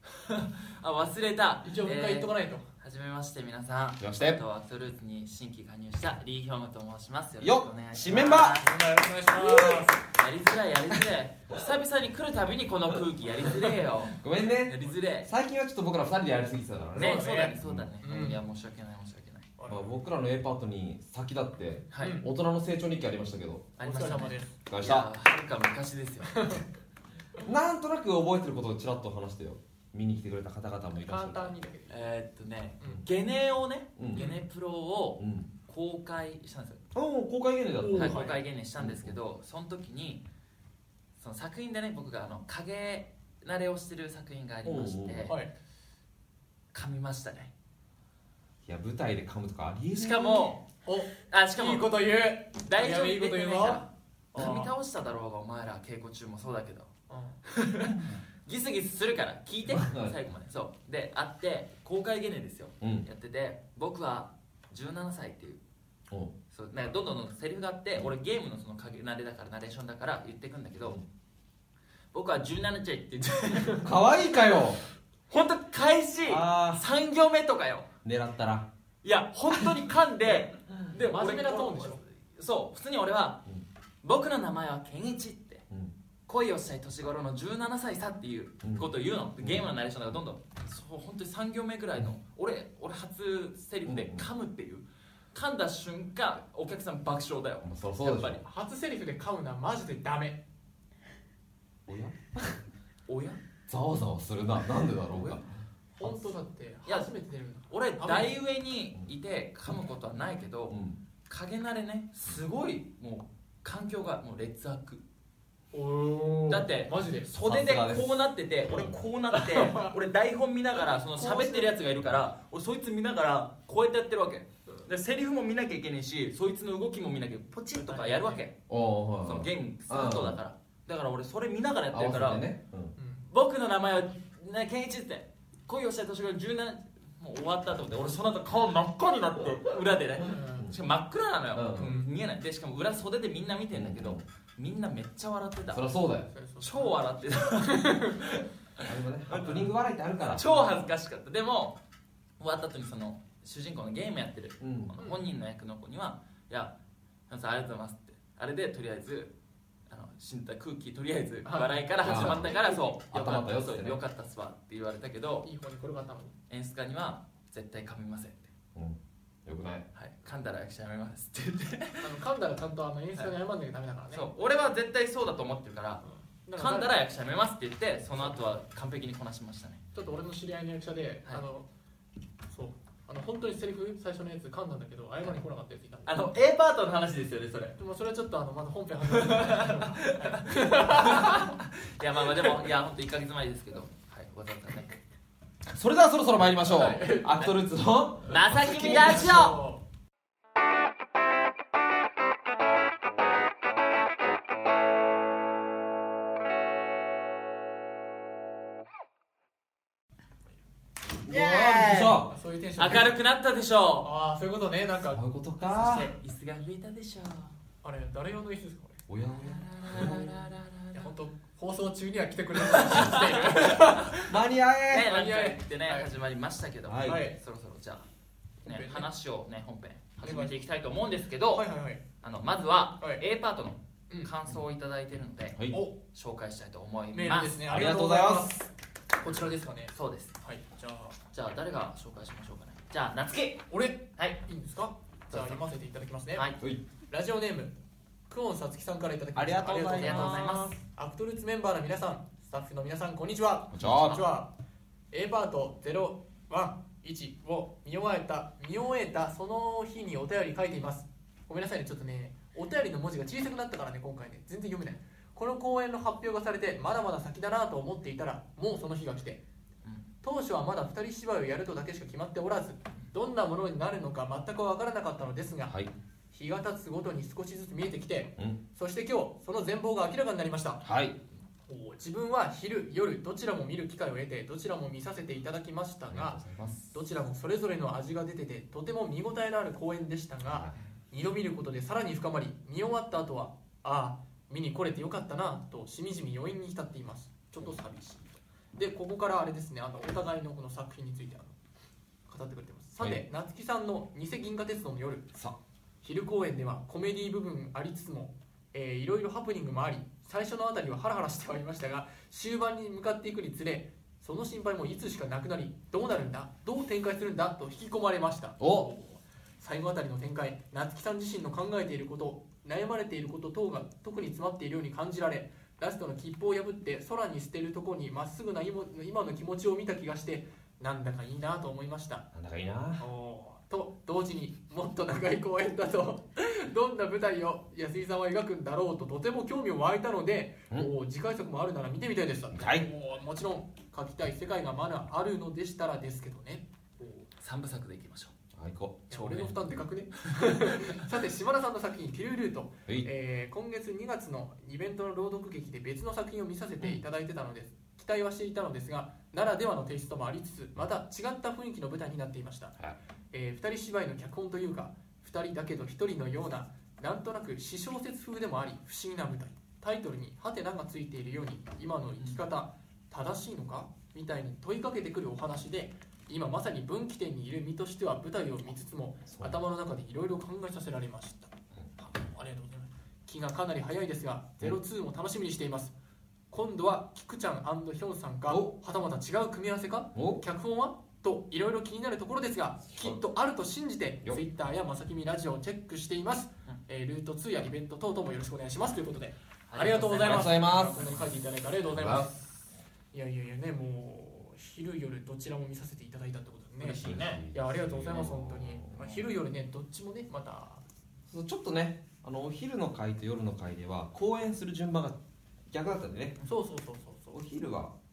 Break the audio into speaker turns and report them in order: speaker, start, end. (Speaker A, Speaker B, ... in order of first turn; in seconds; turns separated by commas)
Speaker A: 0.1-8.8, Speaker B: 1.6-2.7, Speaker C: 4.0-4.4, Speaker C: 7.4-8.6, Speaker B: 8.1-10.0, Speaker C: 9.3-9.9, Speaker A: 10.1-15.3, Speaker C: 13.6-17.9, Speaker B: 16.9-18.4, Speaker A: 16.9-19.5, Speaker B: 19.6-20.0, Speaker C: 19.7-23.7, Speaker A: 21.9-22.2, Speaker B: 22.0-22.3, Speaker A: 23.8-26.6, Speaker B: 23.8-24.6, Speaker C: 24.7-25.1, Speaker B: 26.3-26.6, Speaker C: 27.4-31.5, Speaker B: 30.9-32.1, Speaker A: 31.9-36.8, Speaker C: 34.0-34.2, Speaker B: 34.1-34.4, Speaker C: 35.2-35.5, Speaker C: 36.9-38.2, Speaker B: 37.8-38.4, Speaker A: 37.9-40.2, Speaker C: 38.8-39.2, Speaker A: 41.2-45.4, Speaker C: 44.6-45.3, Speaker A: 46.7-47.5, Speaker C: 48.6-50.5, Speaker A: 50.0-50.6, Speaker B: 50.8-54.7, Speaker A: 51.2-51.9, Speaker A: 52.6-56.9, Speaker B: 57.1-57.4, Speaker A: 57.5-65.6, Speaker C: 59.7-60.1, Speaker C: 62.8-63.1, Speaker A: 66.5-71.0, Speaker A: 72.1-73.9, Speaker C: 73.7-74.8, Speaker A: 75.3-77.9, Speaker C: 76.2-76.8, Speaker C: 78.0-78.7, Speaker A: 79.0-83.4, Speaker B: 81.0-82.0, Speaker A: 84.0-85.6, Speaker A: 86.3-98.4, Speaker C: 88.6-89.7, Speaker C: 93.8-94.3, Speaker C: 97.6-98.4, Speaker B: 98.4-100.4, Speaker C: 101.9-102.6, Speaker A: 103.1-103.4, Speaker C: 103.7-105.5, Speaker B: 105.9-108.3, Speaker C: 106.0-106.3, Speaker A: 107.7-110.8, Speaker C: 110.7-111.0, Speaker A: 111.3-115.0, Speaker B: 115.7-117.3, Speaker A: 116.5-128.6, Speaker C: 117.4-118.9, Speaker B: 119.3-119.9, Speaker B: 121.1-121.7, Speaker B: 127.7-128.4, Speaker C: 128.7-130.4, Speaker A: 129.2-132.4, Speaker C: 131.9-132.9, Speaker B: 132.9-133.3, Speaker A: 133.2-145.9, Speaker B: 140.2-140.7, Speaker C: 140.3-140.8, Speaker C: 141.5-142.0, Speaker B: 141.8-142.1, Speaker C: 143.7-144.2, Speaker C: 145.7-146.3, Speaker B: 146.3-147.0, Speaker A: 146.6-149.5, Speaker B: 147.6-148.2, Speaker C: 148.8-150.5, Speaker B: 149.3-149.7, Speaker A: 150.3-151.8, Speaker B: 150.4-150.9, Speaker A: 152.4-156.8, Speaker C: 154.6-154.9, Speaker B: 155.0-155.2, Speaker A: 157.3-159.3, Speaker A: 159.9-165.5, Speaker B: 161.4-163.0, Speaker C: 162.0-162.5, Speaker C: 163.1-164.0, Speaker B: 165.4-166.3, Speaker A: 166.5-168.5, Speaker C: 168.7-169.9, Speaker A: 169.9-172.1, Speaker B: 172.0-174.3, Speaker A: 174.1-176.0, Speaker B: 176.0-176.9, Speaker A: 176.6-179.8, Speaker B: 178.1-178.4, Speaker B: 179.9-181.7, Speaker B: 182.5-186.1, Speaker A: 186.0-187.8, Speaker B: 187.8-191.5, Speaker A: 189.1-195.0, Speaker C: 195.7-199.5, Speaker B: 196.6-197.5, Speaker A: 198.2-199.6, Speaker B: 198.5-199.8, Speaker C: 211.2-212.3, Speaker A: 211.3-212.2, Speaker B: 212.3-213.1, Speaker A: 212.8-214.1, Speaker B: 214.0-215.2, Speaker C: 215.1-216.1, Speaker A: 215.6-217.5, Speaker B: 217.8-219.0, Speaker C: 219.1-220.3, Speaker A: 219.4-221.1, Speaker B: 220.9-224.3, Speaker A: 222.7-223.7, Speaker C: 224.2-225.1, Speaker A: 224.9-228.1, Speaker B: 224.9-226.1, Speaker C: 226.8-227.2, Speaker B: 227.0-227.4, Speaker B: 228.6-229.1, Speaker A: 228.6-231.7, Speaker B: 230.2-230.6, Speaker B: 231.5-232.0, Speaker A: 232.2-237.6, Speaker C: 235.6-235.8, Speaker B: 237.1-241.2, Speaker C: 237.7-238.5, Speaker A: 239.2-240.3, Speaker A: 241.3-244.4, Speaker B: 243.7-246.5, Speaker A: 245.3-245.6, Speaker A: 246.3-246.6, Speaker B: 247.1-247.8, Speaker B: 248.3-254.5, Speaker C: 249.3-250.4, Speaker A: 249.7-250.8, Speaker C: 253.7-254.2, Speaker B: 255.1-269.4, Speaker B: 270.2-275.8, Speaker C: 275.6-275.9, Speaker B: 276.3-280.8, Speaker C: 280.8-281.2, Speaker B: 281.7-301.6, Speaker C: 286.1-286.8, Speaker C: 290.4-290.8, Speaker B: 302.3-305.3, Speaker B: 306.0-332.3, Speaker C: 318.6-318.9, Speaker C: 332.3-333.1, Speaker B: 333.0-347.3, Speaker C: 342.5-342.9, Speaker A: 347.4-348.3, Speaker C: 348.6-349.1, Speaker B: 349.1-362.8, Speaker A: 349.1-349.6, Speaker A: 350.3-351.0, Speaker B: 363.3-385.9, Speaker C: 379.3-379.6, Speaker B: 386.5-402.5, Speaker C: 388.5-388.7, Speaker C: 390.1-390.4, Speaker A: 399.7-401.3, Speaker C: 400.2-401.1, Speaker C: 401.9-402.3, Speaker B: 403.1-410.8, Speaker A: 406.8-407.4, Speaker C: 407.0-408.9, Speaker C: 411.3-415.2, Speaker C: 415.7-416.4, Speaker B: 416.4-417.4, Speaker C: 417.3-417.9